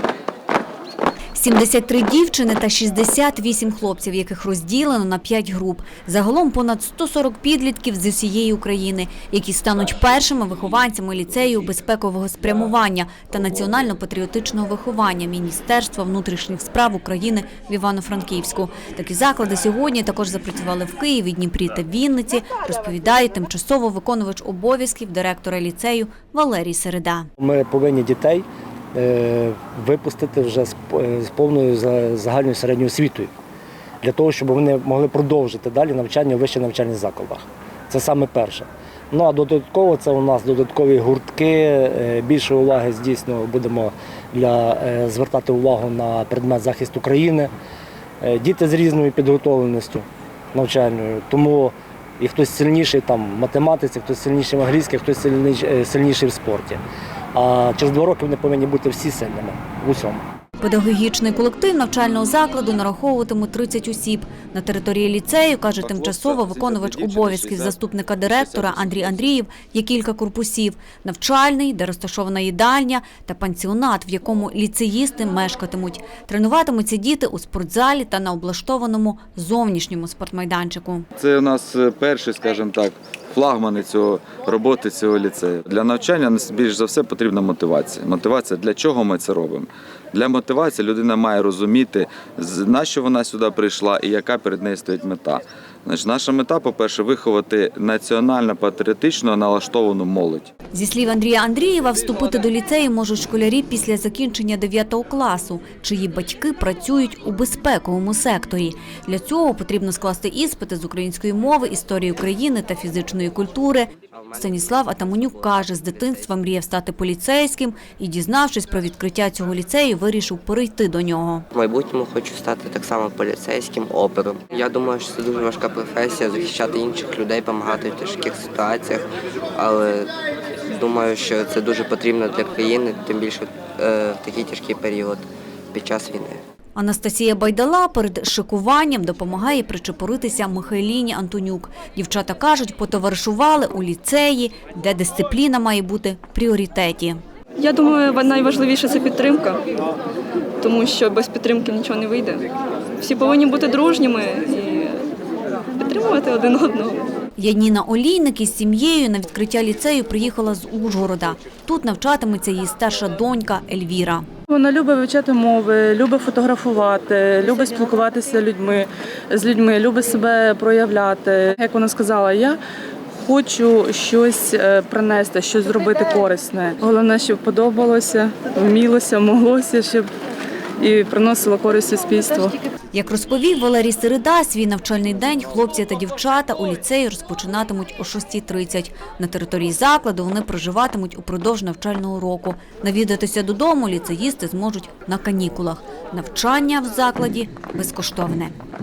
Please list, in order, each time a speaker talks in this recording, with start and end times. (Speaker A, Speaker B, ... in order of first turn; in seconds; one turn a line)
Speaker A: 1.3-27.3
Speaker B: 27.4-33.3
Speaker B: 34.0-47.5
Speaker B: 48.2-56.8
Speaker B: 57.3-60.2
Speaker A: 60.6-81.1
Speaker C: 65.8-69.2
Speaker C: 81.2-100.5
Speaker A: 100.7-121.5
Speaker D: 114.1-116.4
Speaker D: 121.5-130.1
Speaker D: 130.7-136.4
Speaker A: 136.8-147.2
Speaker E: 147.6-149.6
Speaker E: 150.6-152.4
Speaker E: 153.0-154.9
Speaker E: 155.8-157.1
Speaker A: 157.4-164.2
Speaker F: 164.5-172.6
Speaker F: 173.2-180.1
Speaker F: 180.8-182.6
Speaker A: 182.9-198.5